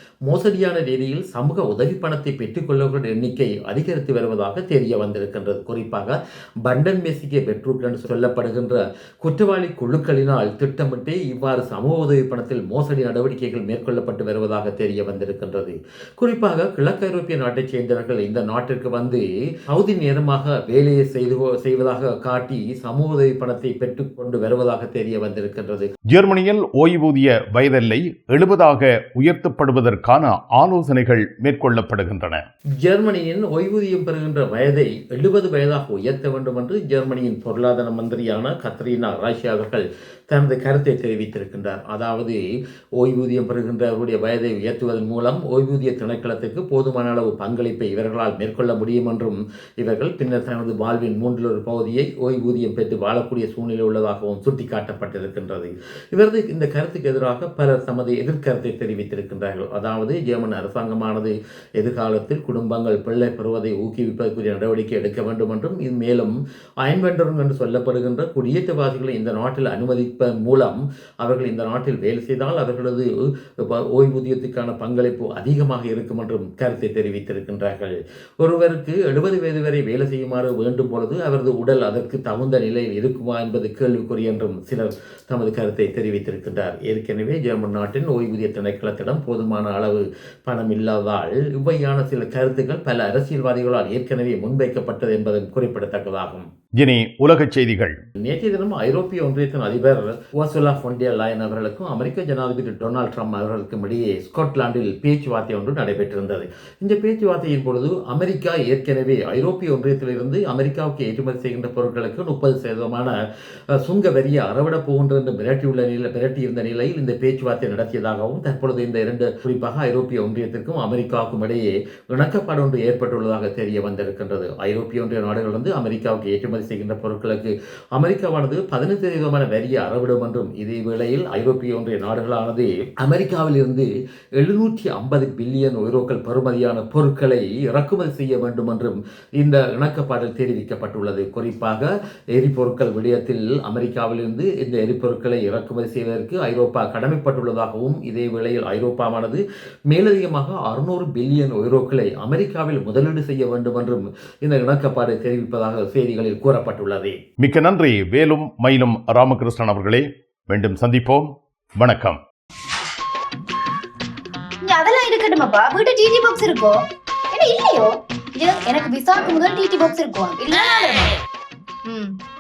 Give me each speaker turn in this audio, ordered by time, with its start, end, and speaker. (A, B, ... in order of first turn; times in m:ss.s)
0:00.2-0:25.9 A
0:26.1-0:32.4 B
0:32.8-0:42.4 A
0:43.0-1:36.5 A
1:36.8-1:38.0 B
1:38.2-1:53.1 A
1:53.7-2:37.2 A
2:37.4-2:42.2 B
2:44.6-2:51.1 C
2:51.9-2:52.2 C